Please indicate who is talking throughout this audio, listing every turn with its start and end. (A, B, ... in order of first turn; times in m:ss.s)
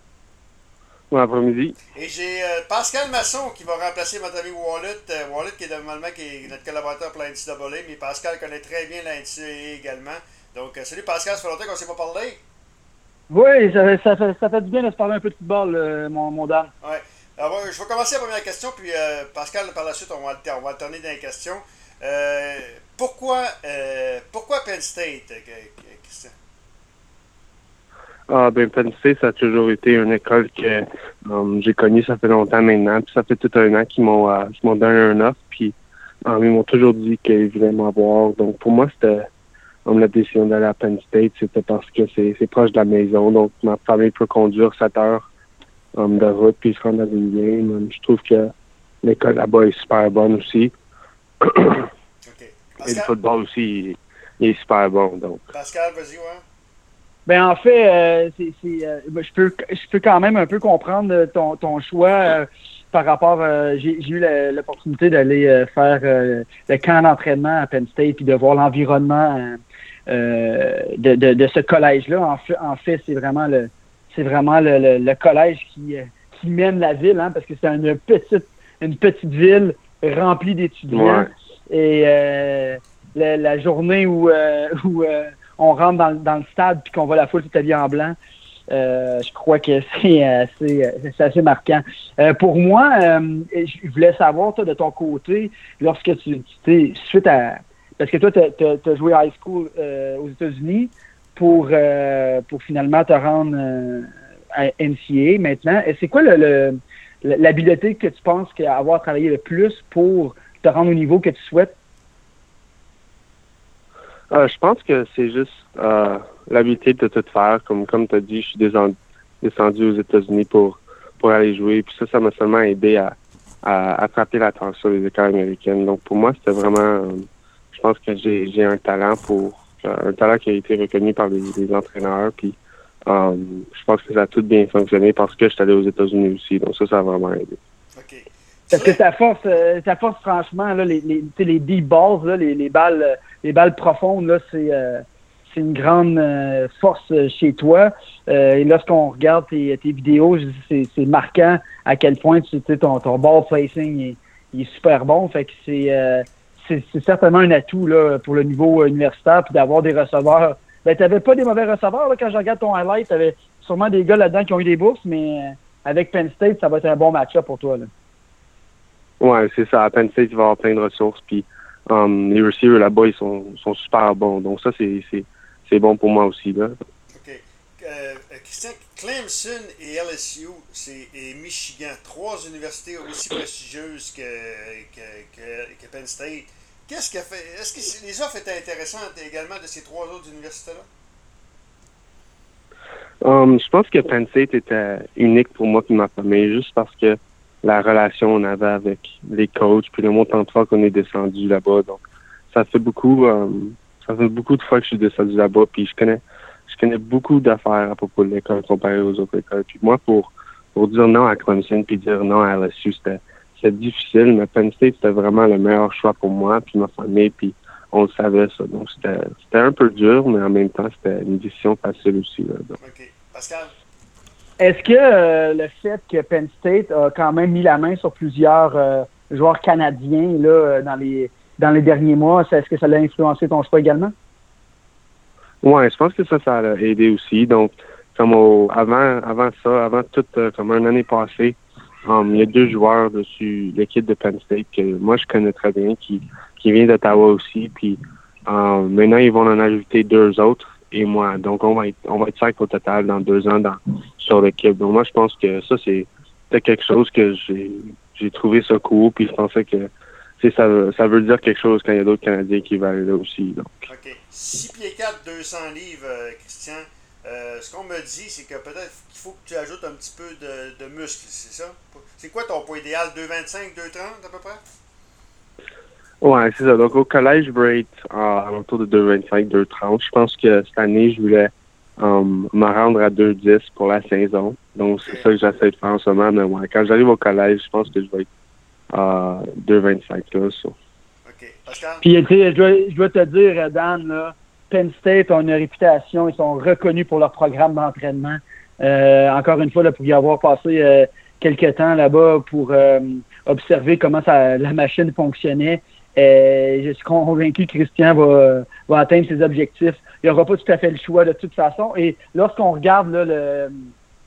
0:01.1-0:01.8 A
0:02.0-0:12.4 B
0:13.3-0:16.7 C
0:16.8-0:26.3 B
0:28.3-0:35.8 A
0:36.3-0:39.3 A
0:39.8-0:45.3 A
0:46.0-0:48.5 A
0:49.0-0:50.7 A
0:51.4-0:51.9 A
0:52.2-0:53.1 B
0:52.8-0:55.4 A
0:55.5-0:56.4 B
0:57.3-1:28.2 C
1:20.9-1:21.3 A
1:28.7-1:51.7 C
1:54.3-2:17.6 A
2:18.0-2:19.0 B
2:18.7-2:47.9 C
2:49.2-2:56.8 A
2:57.1-3:10.9 B
3:13.2-3:42.8 A
3:42.8-3:43.7 B
3:44.6-3:54.1 C
3:55.6-4:23.9 A
4:23.9-4:34.6 B
4:36.2-4:48.3 A
4:48.9-4:50.8 A
4:51.2-4:52.0 B
4:52.0-5:13.7 C